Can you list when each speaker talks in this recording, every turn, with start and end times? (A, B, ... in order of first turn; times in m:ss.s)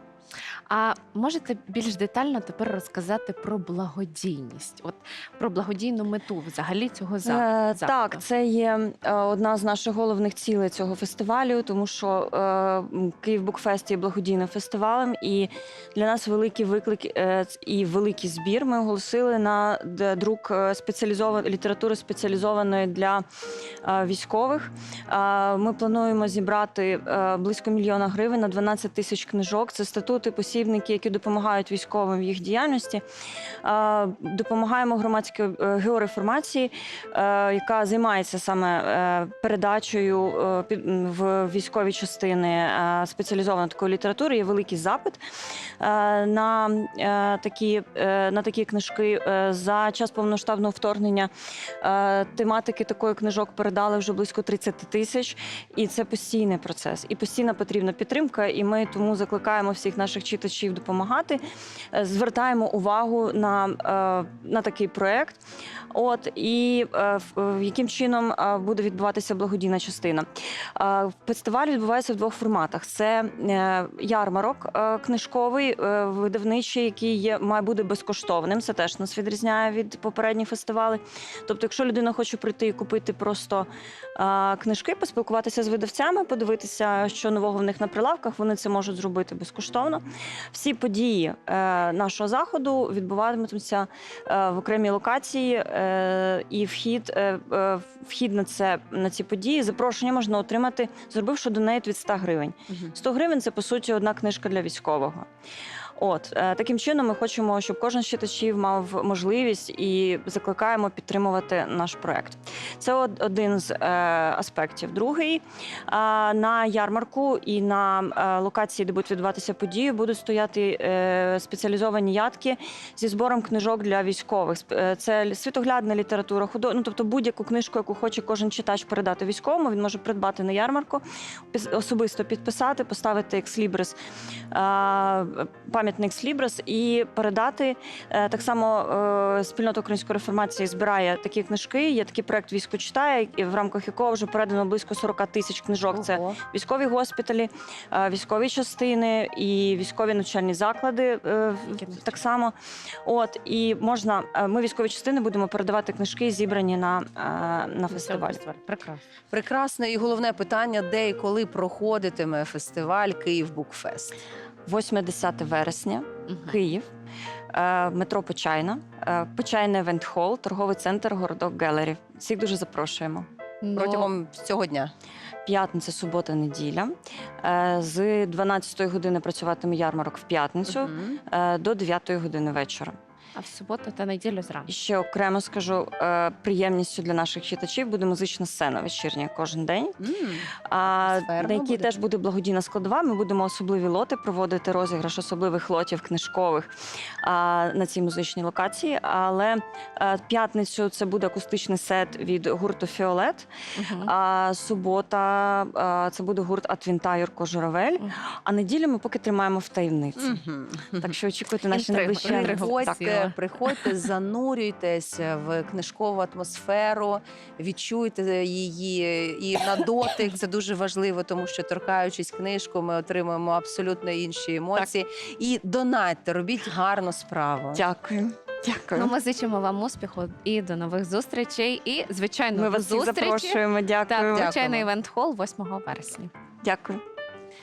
0:00.7-0:08.2 A
0:07.2-0:23.2 B
0:23.8-0:33.0 B
0:33.6-0:45.2 B
0:45.8-0:51.3 B
0:51.8-1:01.4 B
1:01.9-1:05.4 B
1:05.9-1:45.3 B
1:46.0-2:14.0 B
2:14.5-2:38.4 B
2:31.8-2:32.2 A
2:37.9-2:39.0 A
2:39.3-2:44.1 C
2:44.6-2:46.9 B
2:46.3-2:46.6 A
2:47.5-2:53.3 B
2:53.6-2:54.1 A
2:53.7-2:54.9 C
2:55.4-3:03.0 B
3:00.7-3:01.2 C
3:03.4-3:04.7 A
3:04.7-3:10.0 B
3:10.0-3:11.9 C
3:10.6-3:16.7 B
3:17.2-3:23.5 B
3:23.8-3:24.1 A
3:24.0-3:30.4 B
3:30.2-3:31.1 C
3:31.0-3:33.3 B
3:31.7-3:33.3 A
3:32.2-3:47.8 C
3:47.8-3:49.1 B
3:49.0-3:56.3 A
3:52.5-3:54.5 B
3:54.4-3:54.9 C
3:56.6-3:57.0 B